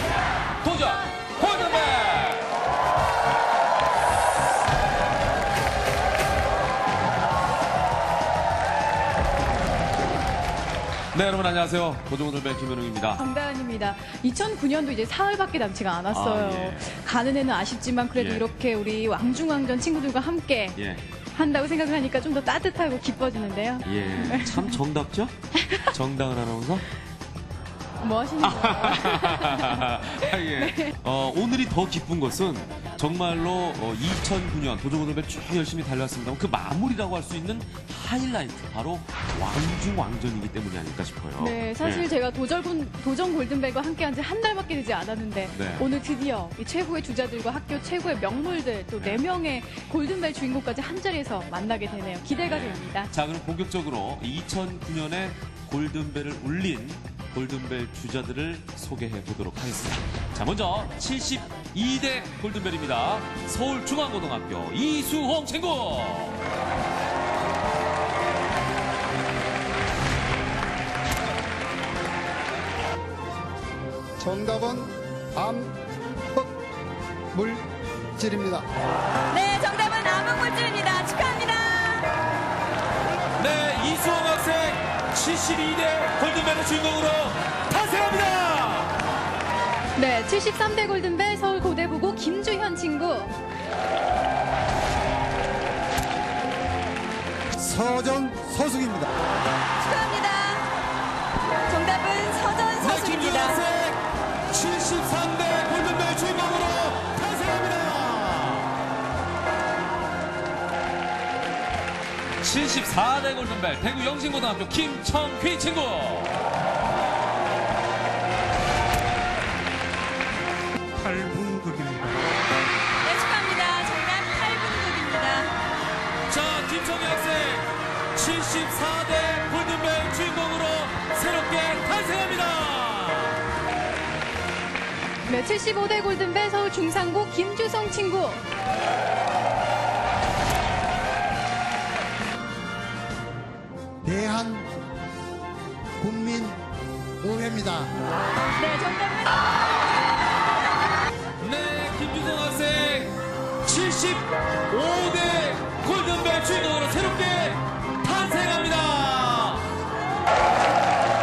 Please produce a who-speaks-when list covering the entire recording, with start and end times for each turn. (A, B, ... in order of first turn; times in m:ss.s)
0:00.6-0:02.5 A
0:11.1-0:13.2 A
0:13.2-0:20.8 B
0:16.1-0:16.8 A
0:18.1-0:18.4 A
0:20.8-0:21.0 A
0:21.3-0:24.8 B
0:23.8-0:26.8 A
0:28.0-0:30.9 B
0:28.4-0:42.1 A
0:41.4-0:53.1 B
0:45.5-0:45.8 A
0:52.4-1:06.4 A
1:14.2-1:15.8 C
1:17.3-1:18.6 C
1:19.3-1:22.1 D
1:23.4-1:28.9 A
1:30.0-1:33.4 B
1:37.5-1:39.1 C
1:39.8-1:40.6 D
1:41.6-1:43.6 D
1:42.8-1:44.0 A
1:44.5-1:48.7 A
1:52.4-1:56.3 A
2:01.0-2:02.1 A
2:03.0-2:05.5 D
2:06.3-2:13.4 A
2:15.3-2:18.4 B
2:24.0-2:24.7 C
2:26.0-2:26.6 C
2:27.2-2:27.9 C
2:28.6-2:29.6 D
2:31.4-2:39.7 A